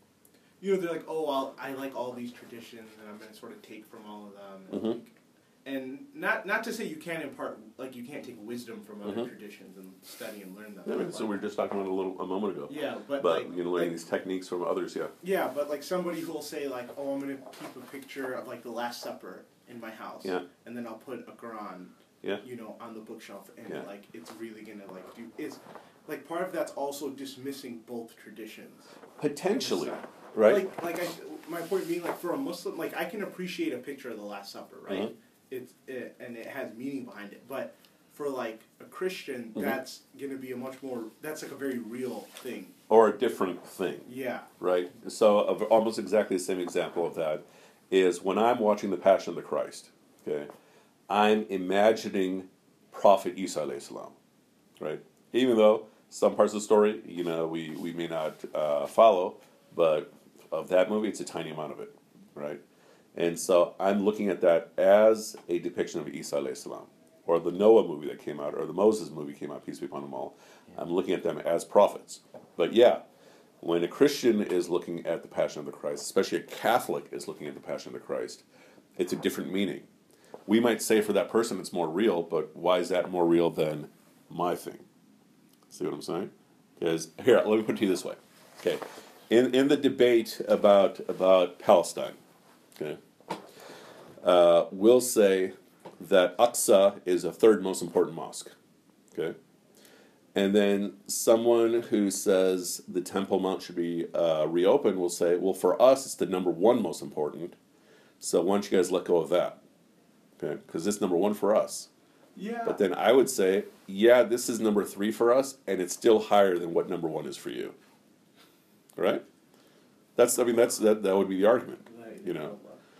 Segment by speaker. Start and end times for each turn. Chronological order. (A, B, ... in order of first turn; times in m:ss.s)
0:00.6-0:11.4 A
0:04.7-0:05.0 B
0:10.8-0:15.1 B
0:12.7-0:14.0 A
0:15.2-0:28.9 A
0:29.2-0:30.7 B
0:29.4-0:42.8 A
0:34.9-0:35.1 B
0:42.9-0:50.5 B
0:44.0-0:44.5 A
0:51.1-0:54.1 B
0:54.8-1:02.6 B
1:03.1-1:13.0 B
1:13.6-1:18.4 B
1:19.0-1:19.9 B
1:20.5-1:24.8 B
1:25.7-1:32.2 B
1:34.2-1:38.5 B
1:40.3-1:47.6 B
1:48.2-1:49.6 B
1:50.4-1:51.9 B
1:52.3-1:52.8 A
1:52.6-1:57.7 B
1:59.0-1:59.2 B
2:00.2-2:02.5 B
2:01.8-2:02.8 A